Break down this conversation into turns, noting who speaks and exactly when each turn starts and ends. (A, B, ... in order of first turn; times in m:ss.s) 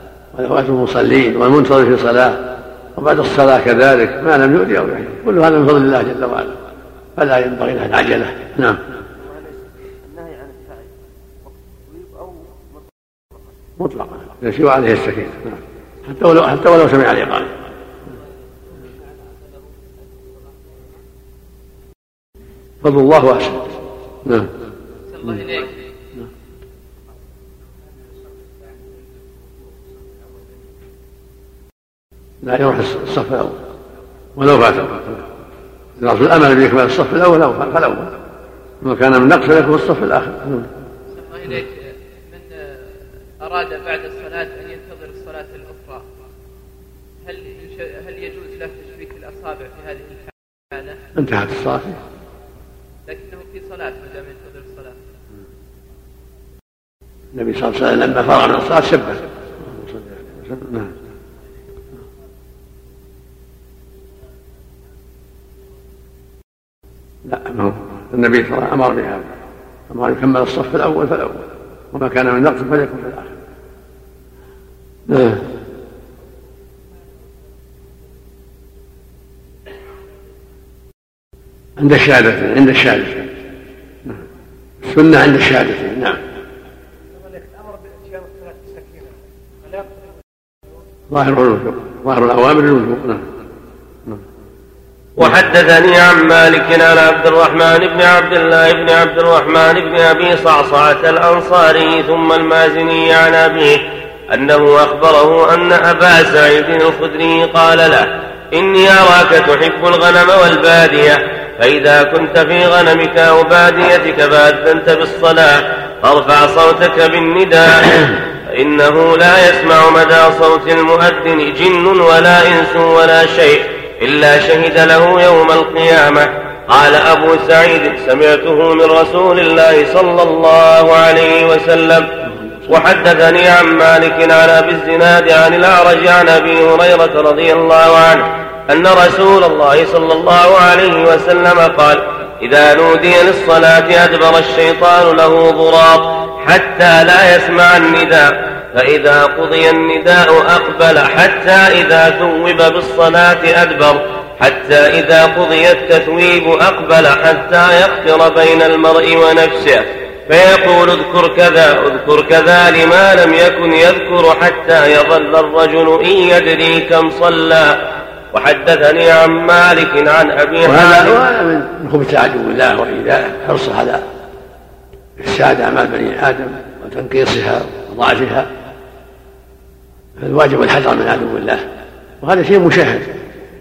0:00.3-0:06.6 A
0:07.2-0:08.8 A
0:09.2-0:10.9 B
0:11.5-0:12.8 B
0:13.8-0:17.6 A
0:18.8-0:19.4 B
0:22.8-0:24.5 A
0:25.1-0:25.7 C
0:32.4-0:33.6 A
0:34.4-0:35.2 A
0:36.0-0:38.1 A
0:38.8-0:40.7 A
0:41.1-0:42.6 C
0:43.4-0:46.1 C
0:47.2-0:51.0 C
0:51.2-0:52.0 A
0:53.1-0:55.0 C
0:57.4-1:00.9 A
1:07.2-1:09.3 A
1:09.9-1:13.3 A
1:15.1-1:15.4 A
1:21.8-1:23.3 A
1:24.8-1:26.2 A
1:31.1-1:33.2 A
1:35.2-2:12.1 D
2:12.7-2:47.8 D
2:48.3-2:51.2 D
2:50.6-2:54.0 A
2:55.2-2:58.5 A
3:00.2-3:01.6 A
3:02.2-3:03.2 A